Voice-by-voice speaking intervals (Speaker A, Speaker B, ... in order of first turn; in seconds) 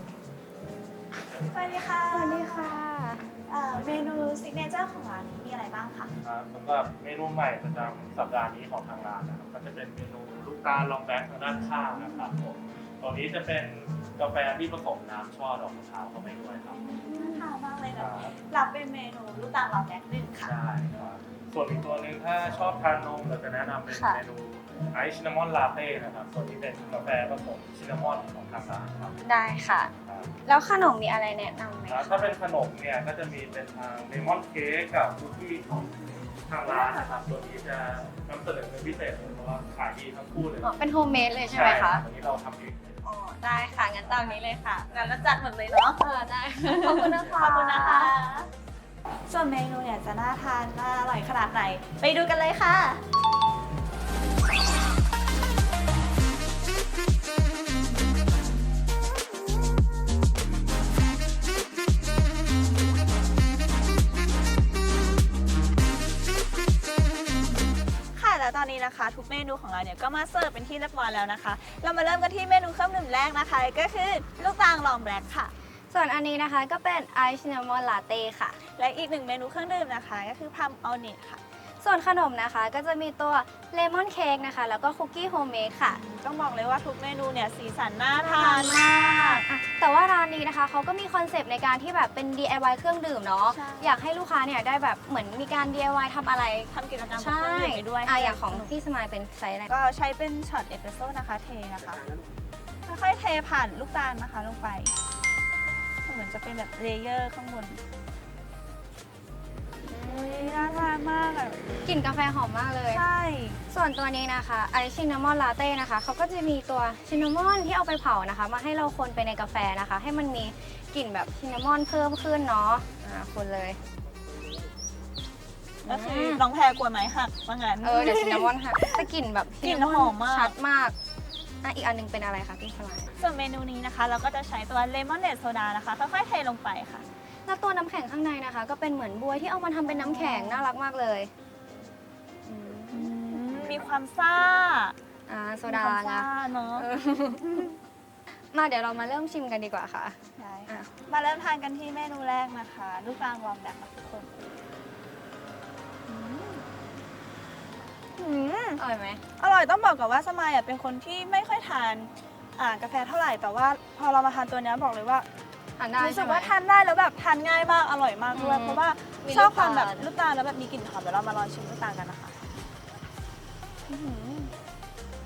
Speaker A: 1.5-2.8, 3.5-6.1, 16.7-20.6, 36.7-37.3, 44.9-48.5, 49.3-53.0, 68.1-75.5, 78.6-81.4, 85.9-89.5, 93.5-94.0, 96.7-98.7, 99.7-102.1, 102.8-105.0, 106.0-107.8, 109.9-111.6, 112.9-113.6, 125.9-129.1, 129.6-130.6, 133.2-137.1, 139.8-140.7, 142.9-144.9, 145.7-146.9, 150.4-154.6, 156.1-156.6, 158.2-158.8, 159.4-165.3, 166.0-172.4, 173.9-174.5
Speaker B: 2.1-3.2, 23.9-24.2, 29.2-29.9, 30.5-32.3, 40.6-42.0, 43.0-44.9, 46.0-48.1, 75.9-78.6, 81.8-86.0, 88.2-99.7, 109.9-110.8, 111.8-113.0, 113.7-123.8, 125.8-126.4, 127.8-131.0, 131.6-133.1, 137.5-141.3, 142.4-143.8, 145.3-147.7, 148.5-150.9, 158.8-159.2, 165.8-166.5, 168.3-170.1
Speaker C: 6.2-16.8, 17.9-18.3, 20.4-29.2, 30.1-30.3, 31.9-40.7, 41.4-43.0, 47.0-47.5